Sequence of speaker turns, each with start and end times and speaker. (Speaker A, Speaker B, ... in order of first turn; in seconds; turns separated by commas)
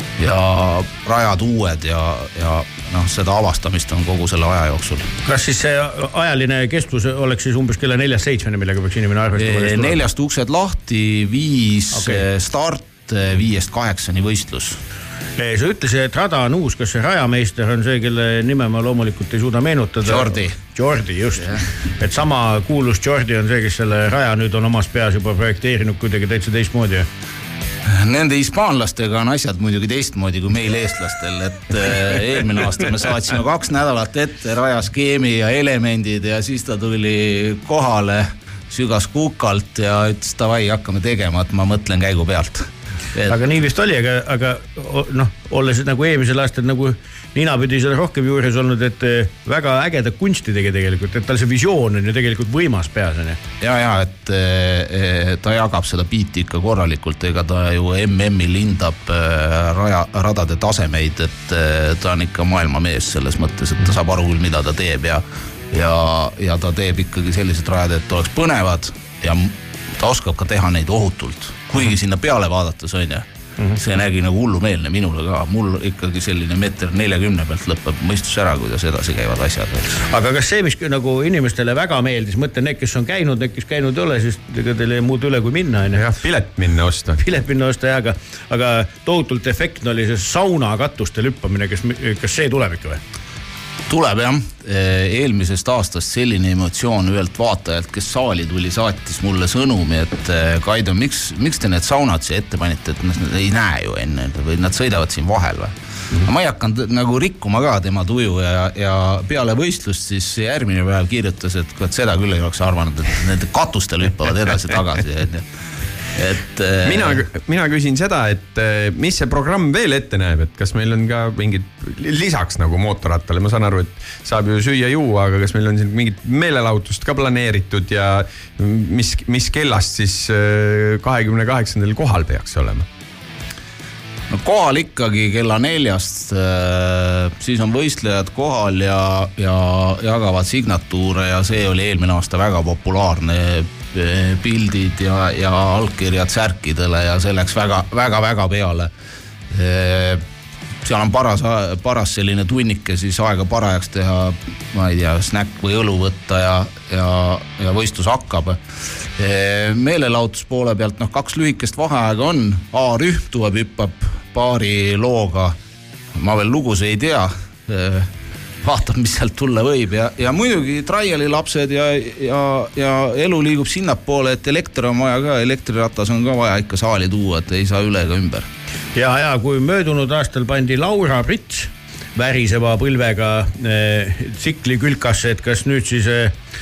Speaker A: 0.2-5.1, Speaker B: 5.2-10.0, Speaker A: 9.3-14.8, Speaker B: 11.9-12.2, Speaker B: 15.4-27.1, Speaker A: 20.1-20.6, Speaker A: 27.9-43.4, Speaker B: 43.3-53.4, Speaker A: 53.6-79.9, Speaker B: 80.1-86.0, Speaker C: 85.9-87.2, Speaker B: 87.2-93.0, Speaker A: 93.9-115.5, Speaker A: 116.1-117.2, Speaker C: 116.8-132.9, Speaker A: 134.3-148.9, Speaker A: 149.5-150.2, Speaker A: 150.8-158.6, Speaker A: 159.2-165.6, Speaker A: 166.1-168.1, Speaker A: 168.6-178.5, Speaker B: 178.9-186.3